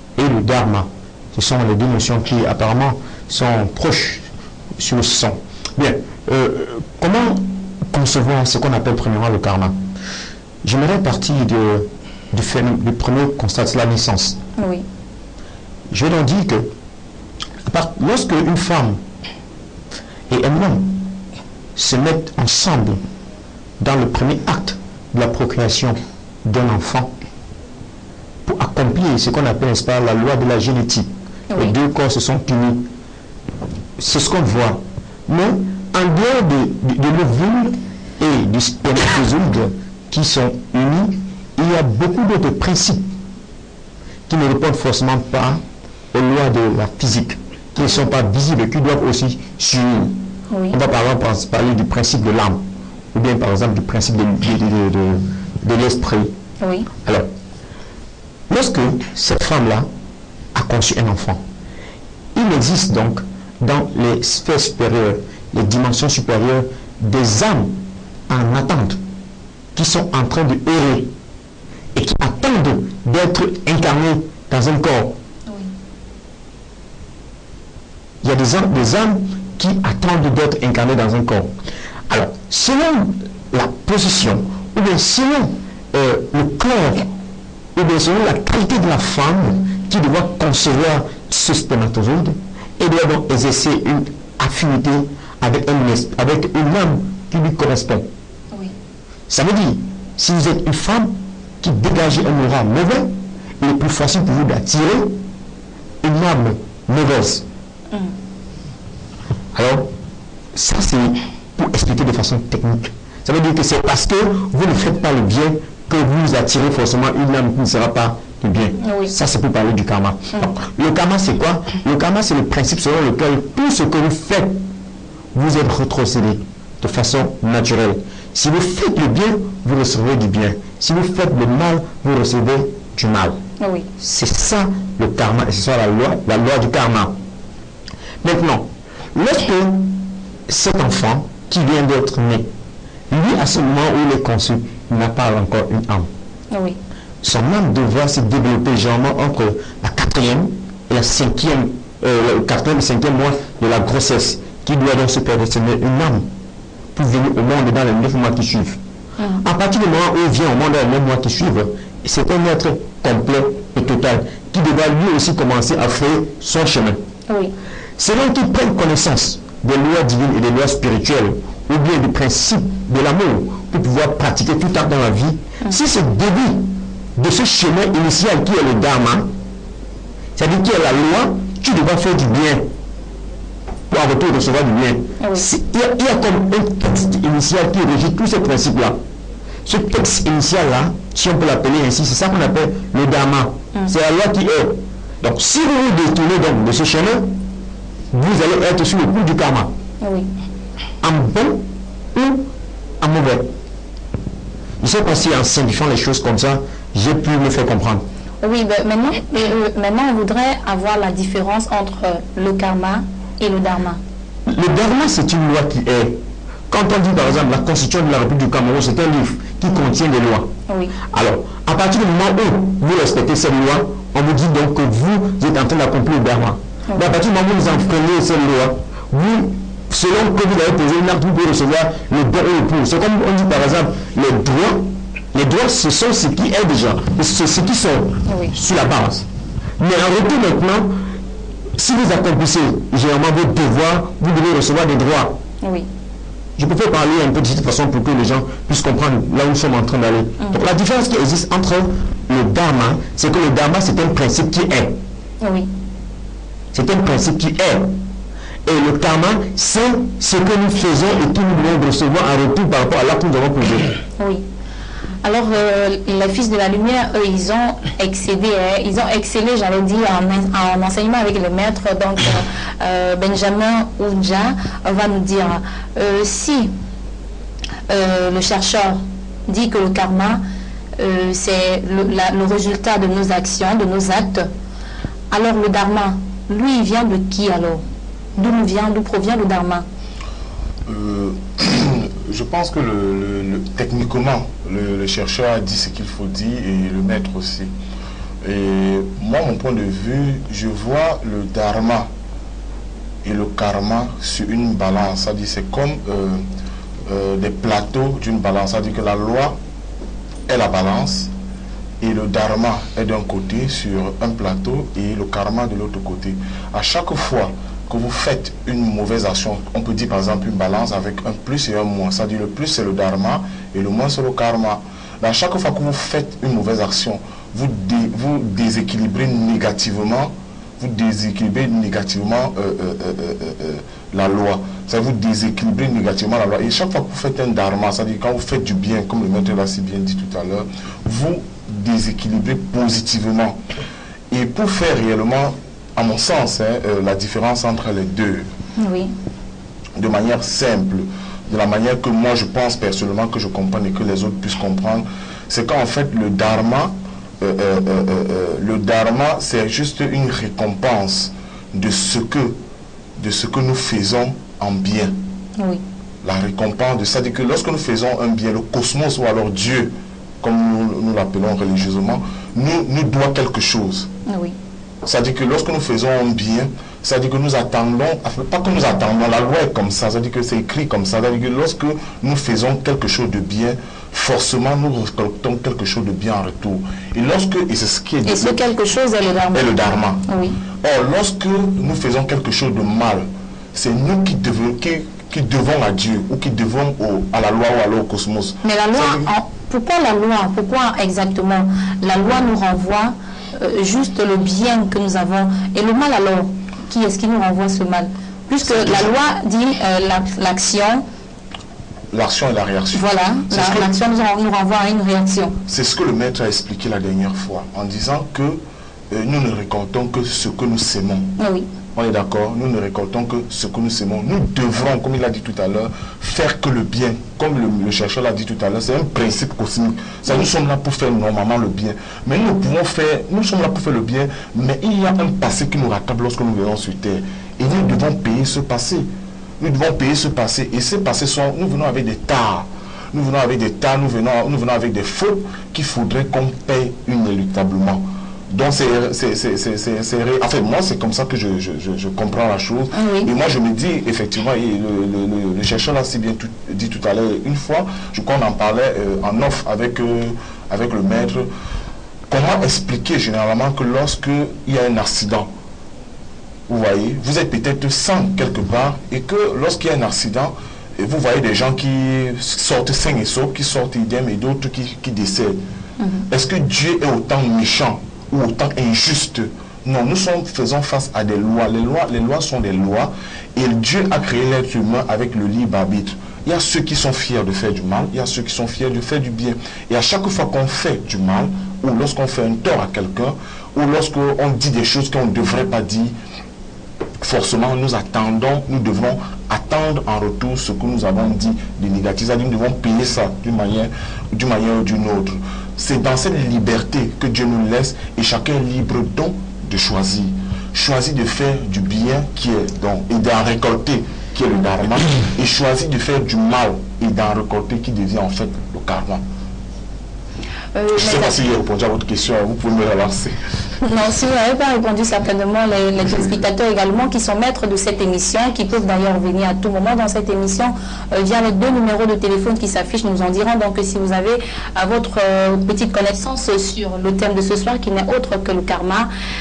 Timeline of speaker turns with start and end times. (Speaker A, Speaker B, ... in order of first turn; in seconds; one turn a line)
Speaker A: 0.2-9.8
Speaker A: 10.6-14.4
Speaker B: 14.6-14.8
Speaker A: 15.9-16.7
Speaker A: 17.7-19.0
Speaker A: 20.3-21.0
Speaker A: 21.8-23.0
Speaker A: 23.8-27.1
Speaker A: 28.4-32.9
Speaker A: 34.0-43.1
Speaker A: 44.3-50.2
Speaker B: 50.5-50.8
Speaker A: 50.7-56.4
Speaker B: 56.6-56.9
Speaker A: 58.5-59.9
Speaker A: 60.5-61.4
Speaker A: 62.4-67.8
Speaker A: 68.3-69.0
Speaker A: 69.8-71.1
Speaker A: 71.9-75.2
Speaker B: 75.5-75.7
Speaker A: 78.2-81.5
Speaker A: 82.1-87.1
Speaker A: 87.8-98.1
Speaker A: 99.3-105.2
Speaker A: 106.0-107.5
Speaker A: 109.5-109.9
Speaker A: 110.5-124.6
Speaker B: 118.8-119.1
Speaker A: 125.3-133.4
Speaker B: 133.6-133.9
Speaker A: 134.0-137.2
Speaker A: 138.2-142.5
Speaker A: 143.1-146.1
Speaker B: 146.5-146.8
Speaker A: 147.2-156.3
Speaker A: 156.9-158.8
Speaker B: 159.2-159.4
Speaker A: 159.4-167.0
Speaker B: 167.3-167.5
Speaker A: 168.0-179.3
Speaker A: 180.4-182.7
Speaker A: 183.9-189.0
Speaker B: 185.2-185.5
Speaker A: 189.7-197.4
Speaker A: 198.1-199.7
Speaker B: 200.0-200.3
Speaker A: 201.0-203.5
Speaker A: 204.8-208.1
Speaker B: 208.4-214.0
Speaker A: 214.4-220.5
Speaker B: 220.7-220.9
Speaker A: 221.1-239.3
Speaker B: 238.3-238.5
Speaker A: 239.8-241.1
Speaker A: 241.8-245.4
Speaker B: 245.6-245.9
Speaker A: 246.6-255.0
Speaker B: 255.4-255.7
Speaker A: 256.7-258.0
Speaker A: 258.6-264.0
Speaker B: 265.2-276.7
Speaker B: 277.9-280.4
Speaker B: 281.0-284.5
Speaker B: 285.3-287.8
Speaker B: 288.4-289.9
Speaker C: 290.9-297.7
Speaker C: 298.4-302.1
Speaker C: 303.2-306.4
Speaker C: 307.1-309.6
Speaker C: 310.5-311.3
Speaker C: 312.0-343.6
Speaker C: 344.3-348.5
Speaker B: 348.8-349.1
Speaker C: 350.0-362.6
Speaker C: 363.2-365.2
Speaker C: 366.2-374.1
Speaker B: 374.3-374.6
Speaker C: 375.0-388.6
Speaker B: 388.3-390.6
Speaker C: 389.5-390.3
Speaker C: 390.8-399.3
Speaker B: 398.6-411.0
Speaker C: 408.6-409.1
Speaker C: 412.1-413.9
Speaker B: 412.9-415.6
Speaker C: 415.7-421.3
Speaker B: 421.4-421.7
Speaker C: 421.9-439.1
Speaker C: 439.6-461.5
Speaker B: 452.9-453.3
Speaker C: 462.3-465.5
Speaker C: 466.7-475.6
Speaker B: 476.0-476.2
Speaker C: 476.3-496.1
Speaker C: 497.2-519.2
Speaker B: 520.8-521.4
Speaker C: 521.0-523.4
Speaker B: 523.8-539.1